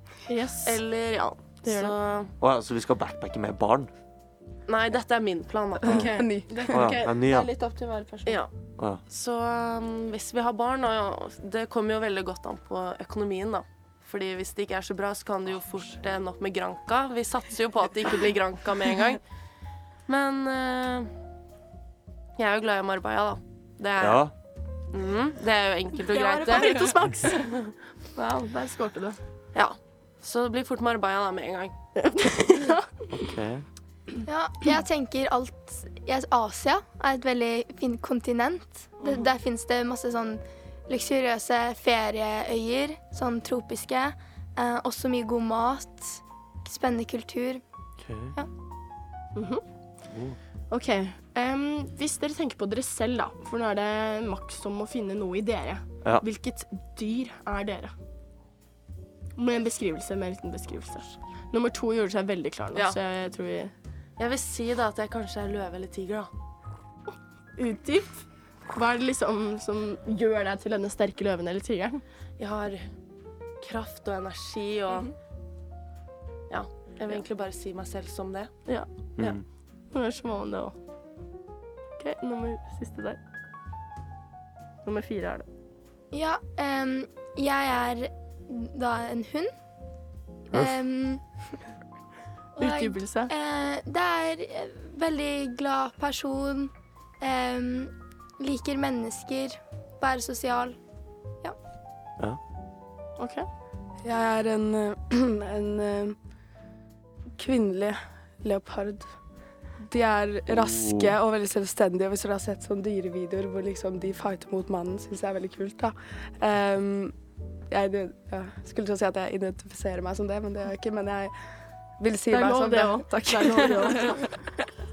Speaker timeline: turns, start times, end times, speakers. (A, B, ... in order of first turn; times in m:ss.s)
0:00.3-0:00.8 A
0:00.6-0:02.3 B
0:01.6-0:02.0 A
0:02.4-0:03.9 C
0:04.7-0:06.2 B
0:05.8-0:08.4 A
0:05.8-0:06.9 D
0:06.7-0:07.5 C
0:08.3-0:08.5 B
0:09.1-0:19.2 B
0:20.1-0:21.1 B
0:22.4-0:24.3 B
0:24.0-0:24.3 C
0:24.9-0:27.7 B
0:26.0-0:27.5 A
0:28.2-0:29.2 A
0:29.5-0:31.8 B
0:32.0-0:32.9 A
0:33.1-0:33.6 C
0:34.2-0:47.6 E
0:48.0-0:48.4 C
0:49.4-0:49.6 A
0:50.1-0:50.4 C
0:50.7-0:57.9 A
0:59.4-1:03.7 A
1:04.2-1:06.3 B
1:07.6-1:12.0 A
1:12.4-1:12.9 B
1:13.6-1:15.1 B
1:16.5-1:18.5 B
1:19.9-1:20.8 A
1:22.0-1:23.2 A
1:24.8-1:25.5 A
1:26.1-1:29.5 E
1:30.5-1:31.2 E
1:32.6-1:40.8 E
1:32.6-1:33.3 A
1:43.2-1:43.5 A
1:44.0-1:46.2 D
1:47.4-1:49.1 D
1:49.8-1:57.2 D
1:50.5-1:51.1 C
1:57.7-2:01.3 D
2:02.0-2:04.4 D
2:02.3-2:04.3 A